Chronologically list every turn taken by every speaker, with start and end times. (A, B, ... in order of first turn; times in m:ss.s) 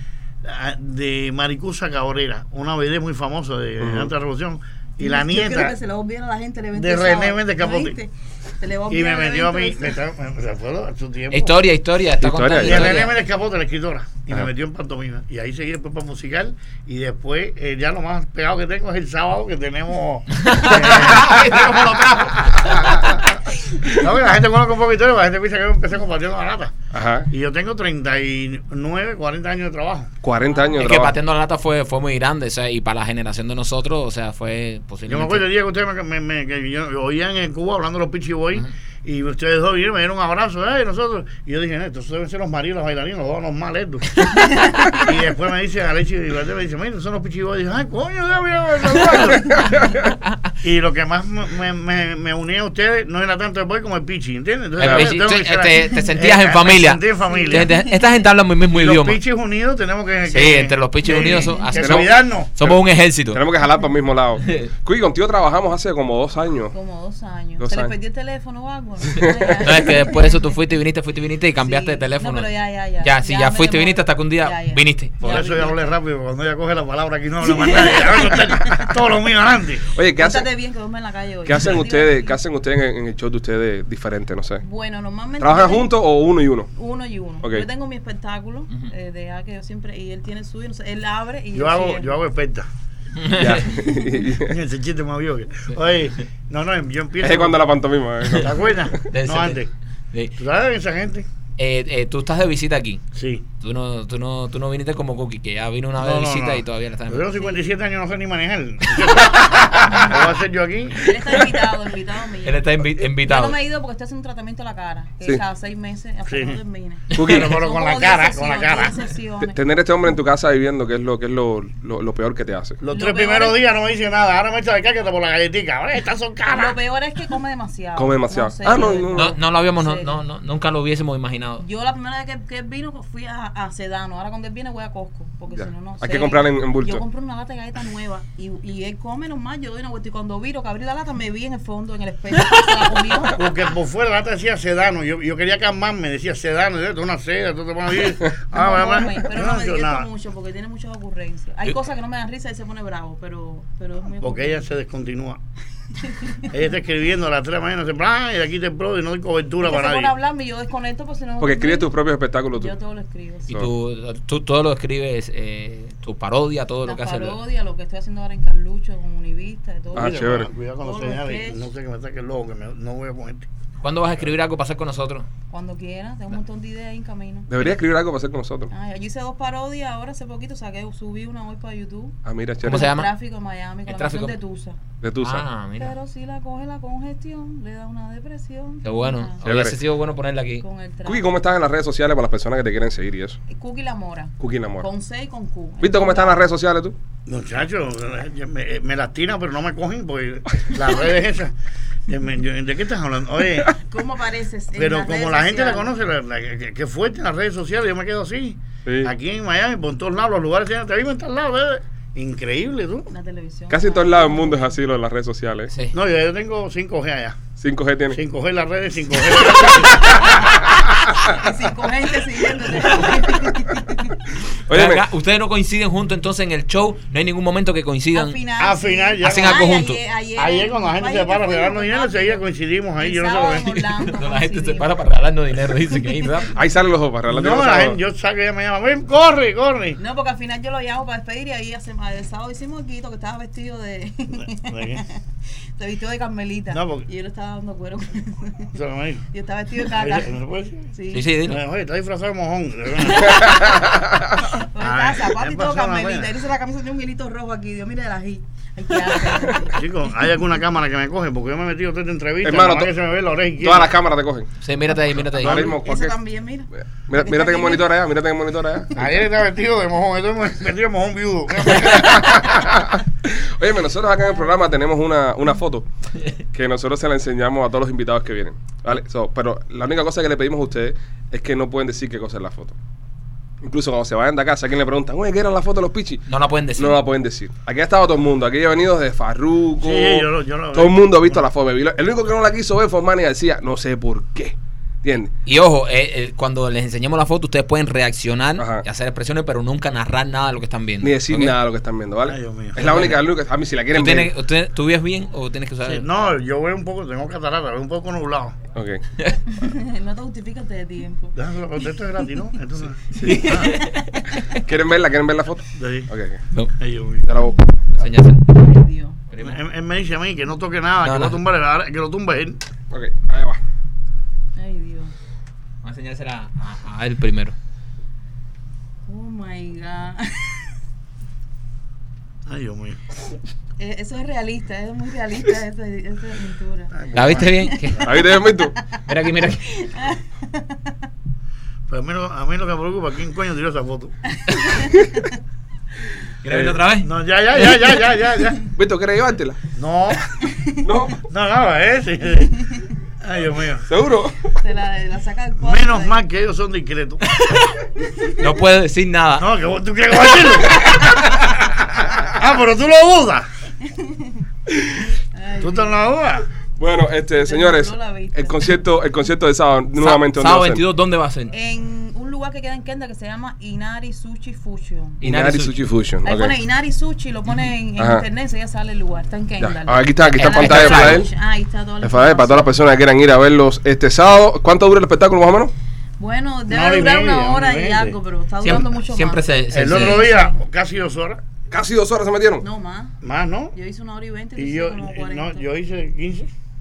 0:00.4-0:05.8 A
0:03.8-0:04.1 B
0:05.0-0:10.0 C
0:06.7-0:08.0 A
0:08.9-0:11.6 A
0:11.3-0:13.1 D
0:12.2-0:12.8 B
0:12.6-0:23.0 A
0:20.4-0:22.7 D
0:23.8-0:26.7 A
0:26.9-0:27.3 B
0:27.3-0:30.1 A
0:30.2-0:31.2 B
0:30.7-0:35.4 D
0:35.1-0:49.8 A
0:44.4-0:44.9 C
0:48.9-0:50.0 B
0:50.6-0:57.7 A
0:54.8-0:59.2 D
0:54.8-0:55.1 B
0:57.2-0:58.0 C
0:58.7-1:02.5 A
1:00.3-1:03.4 D
1:01.1-1:01.8 C
1:01.8-1:02.1 B
1:02.6-1:06.7 B
1:06.7-1:10.6 C
1:07.6-1:07.9 B
1:09.6-1:15.2 D
1:11.6-1:15.9 C
1:15.2-1:19.8 A
1:18.2-1:18.8 C
1:19.9-1:20.5 B
1:20.2-1:22.4 C
1:21.4-1:24.6 B
1:24.6-1:26.0 C
1:25.4-1:26.7 B
1:26.7-1:32.2 C
1:31.5-1:32.7 A
1:33.2-1:33.6 D
1:33.3-1:34.5 B
1:33.7-1:34.0 C
1:34.5-1:37.6 A
1:37.2-1:38.9 B
1:38.2-1:38.5 D
1:38.4-1:39.7 A
1:39.1-1:40.3 D
1:40.4-1:41.3 A
1:41.6-1:43.0 D
1:43.1-1:43.4 A
1:43.6-1:47.3 D
1:46.0-1:51.0 A
1:49.3-1:50.2 D
1:50.9-1:59.6 C
1:52.4-1:53.6 D
1:56.3-1:56.6 A
1:57.1-1:57.6 B
1:57.2-1:59.0 A
1:59.4-2:02.8 B
2:02.8-2:06.8 A
2:02.9-2:03.6 C
2:06.5-2:10.2 C
2:08.0-2:09.3 B
2:09.1-2:11.6 D
2:11.6-2:23.4 C
2:15.6-2:17.0 B
2:23.3-2:30.1 A
2:28.5-2:34.7 C
2:34.2-2:35.4 A
2:36.0-2:36.5 C
2:36.5-2:40.2 A
2:39.6-2:42.0 C
2:41.4-2:42.7 B
2:42.5-2:43.5 C
2:43.5-2:47.4 D
2:46.8-2:50.2 C
2:49.9-2:53.5 A
2:50.0-2:50.5 B
2:50.8-2:51.7 C
2:53.8-2:55.3 D
2:55.5-2:57.5 C
2:57.5-2:58.7 B
2:58.7-3:04.8 C
3:02.2-3:02.9 B
3:02.6-3:03.1 D
3:03.8-3:04.3 D
3:05.0-3:05.4 B
3:05.2-3:05.9 D
3:05.8-3:09.4 C
3:08.8-3:10.6 D
3:09.4-3:09.8 B
3:10.6-3:11.3 C
3:11.0-3:13.4 B
3:13.5-3:16.5 C
3:14.4-3:14.9 B
3:15.8-3:17.0 B
3:17.3-3:21.5 A
3:22.1-3:23.7 A
3:23.7-3:26.0 C
3:24.7-3:33.1 A
3:28.8-3:29.1 B
3:33.1-3:34.8 C
3:33.7-3:35.7 B
3:35.7-3:35.9 D
3:35.9-3:37.4 A
3:37.5-3:38.2 B
3:38.1-3:40.3 A
3:41.2-3:44.3 C
3:44.7-3:45.0 B
3:44.7-3:48.4 D
3:48.1-3:54.9 C
3:48.6-3:49.7 A
3:49.2-3:50.0 D
3:50.4-3:53.7 A
3:53.5-3:56.5 D
3:56.5-3:58.0 B
3:57.3-4:00.0 A
4:00.0-4:05.2 C
4:04.6-4:05.0 A
4:05.7-4:08.7 C
4:06.7-4:07.1 A
4:08.7-4:09.2 A
4:09.3-4:10.4 C
4:10.0-4:10.9 A
4:10.9-4:11.3 C
4:11.1-4:11.6 D
4:11.4-4:13.5 A
4:13.0-4:13.8 C
4:13.4-4:14.2 B
4:14.3-4:19.9 C
4:14.8-4:16.3 A
4:19.7-4:23.9 A
4:22.4-4:22.9 B
4:23.6-4:24.5 B
4:24.6-4:25.7 D
4:25.4-4:25.8 A
4:25.4-4:26.2 B
4:25.6-4:27.9 C
4:27.0-4:29.2 B
4:29.0-4:32.5 A
4:31.7-4:35.9 B
4:36.5-4:42.8 B
4:43.6-4:46.2 B
4:46.3-4:47.0 D
4:46.8-4:55.3 B
4:49.8-4:51.4 A
4:55.4-5:01.5 D
4:58.6-4:58.8 B
5:01.0-5:04.3 B
5:02.2-5:02.8 A
5:02.8-5:03.2 D
5:03.9-5:06.1 D
5:05.8-5:08.6 A
5:08.7-5:09.0 B
5:09.5-5:11.4 C
5:11.3-5:13.8 A
5:13.1-5:14.5 D
5:14.6-5:16.4 B
5:15.7-5:16.1 A
5:16.8-5:17.2 A
5:17.2-5:17.6 B
5:18.0-5:18.4 D
5:18.5-5:19.2 C
5:19.3-5:19.6 D
5:19.4-5:22.6 A
5:21.0-5:21.4 D
5:22.9-5:23.6 B
5:24.5-5:25.1 C
5:25.8-5:27.5 D
5:29.1-5:30.7 C
5:32.4-5:33.0 A
5:33.8-5:38.3 C
5:36.9-5:37.6 A
5:37.1-5:38.0 D
5:38.0-5:38.7 B
5:38.9-5:40.9 C
5:39.0-5:39.7 D
5:41.9-5:44.1 A
5:44.4-5:45.4 C
5:46.4-5:47.8 D
5:46.5-5:46.8 B
5:47.0-5:48.6 A
5:48.7-5:49.6 B
5:49.7-5:50.2 A
5:50.4-5:50.8 C
5:50.8-5:51.2 B
5:51.2-5:53.9 A
5:52.6-5:52.9 C
5:53.9-5:54.5 B
5:54.5-5:56.2 C
5:55.6-5:57.2 A
5:57.3-5:57.7 D
5:58.4-5:59.5 D
5:59.4-6:01.0 A
6:01.9-6:02.2 B
6:02.0-6:03.5 A
6:03.8-6:04.4 C
6:05.0-6:06.0 C
6:05.6-6:06.4 A
6:06.8-6:10.8 B
6:07.4-6:08.6 C
6:10.0-6:11.5 D
6:11.5-6:15.2 C
6:15.2-6:16.6 B
6:15.2-6:15.8 D
6:16.2-6:22.8 C
6:18.0-6:18.2 B
6:19.6-6:21.3 B
6:20.3-6:21.3 D
6:22.0-6:25.7 B
6:26.2-6:30.6 C
6:26.7-6:28.2 A
6:28.6-6:30.2 D
6:29.7-6:31.4 A
6:31.7-6:32.6 B
6:32.6-6:33.1 C
6:33.2-6:33.7 A
6:33.7-6:35.6 C
6:34.6-6:36.5 A